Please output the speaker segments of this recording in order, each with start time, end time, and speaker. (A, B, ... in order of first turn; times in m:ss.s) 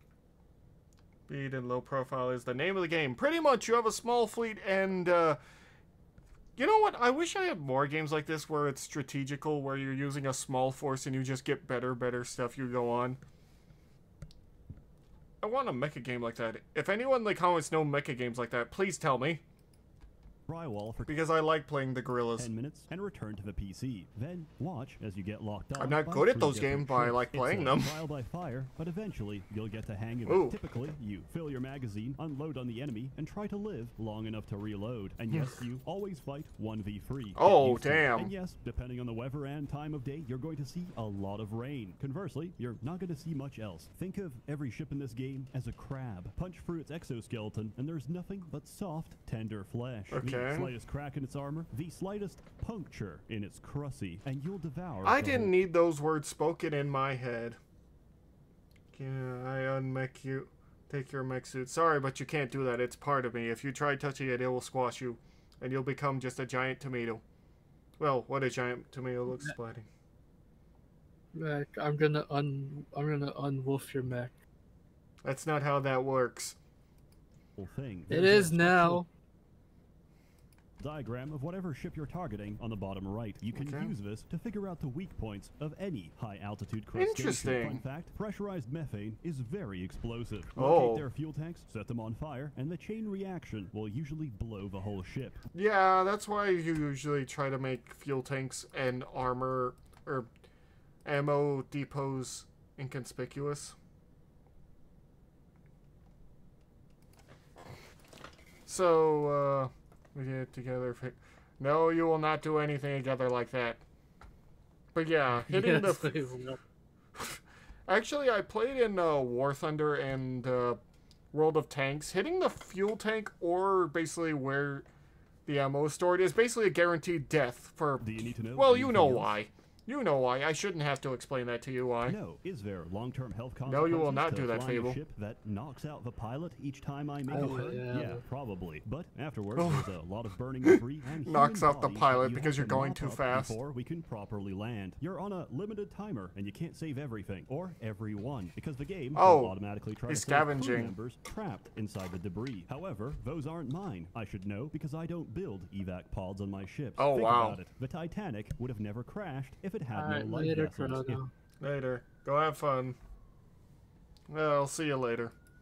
0:01.3-0:05.4 A
0:06.6-0:13.2 A
0:15.4-0:19.4 A
0:20.5-0:21.1 B
0:21.0-0:22.5 A
0:22.4-0:55.5 B
0:25.8-0:27.9 A
0:30.2-0:30.6 A
0:37.3-0:38.3 A
0:50.1-0:50.7 A
0:55.0-0:57.6 A
0:58.9-1:07.2 A
1:08.0-1:09.9 A
1:11.3-1:14.4 C
1:15.2-1:16.6 A
1:17.6-1:19.0 B
1:18.1-1:19.1 C
1:20.8-1:35.4 B
1:23.5-1:23.9 A
1:26.9-1:27.8 A
1:30.6-1:31.0 A
1:35.5-1:40.3 A
1:41.0-1:43.7 A
1:48.7-1:53.8 A
1:54.9-1:56.2 A
1:55.5-1:56.6 C
1:57.2-2:00.8 A
2:01.3-2:04.8 A
2:05.4-2:12.2 A
2:08.0-2:09.3 B
2:12.0-2:41.2 B
2:13.6-2:15.0 A
2:17.3-2:18.2 C
2:19.6-2:19.9 A
2:20.6-2:23.6 A
2:29.1-2:30.9 A
2:37.0-2:37.6 A
2:39.9-2:41.3 C
2:41.6-2:43.0 A
2:44.3-2:45.3 A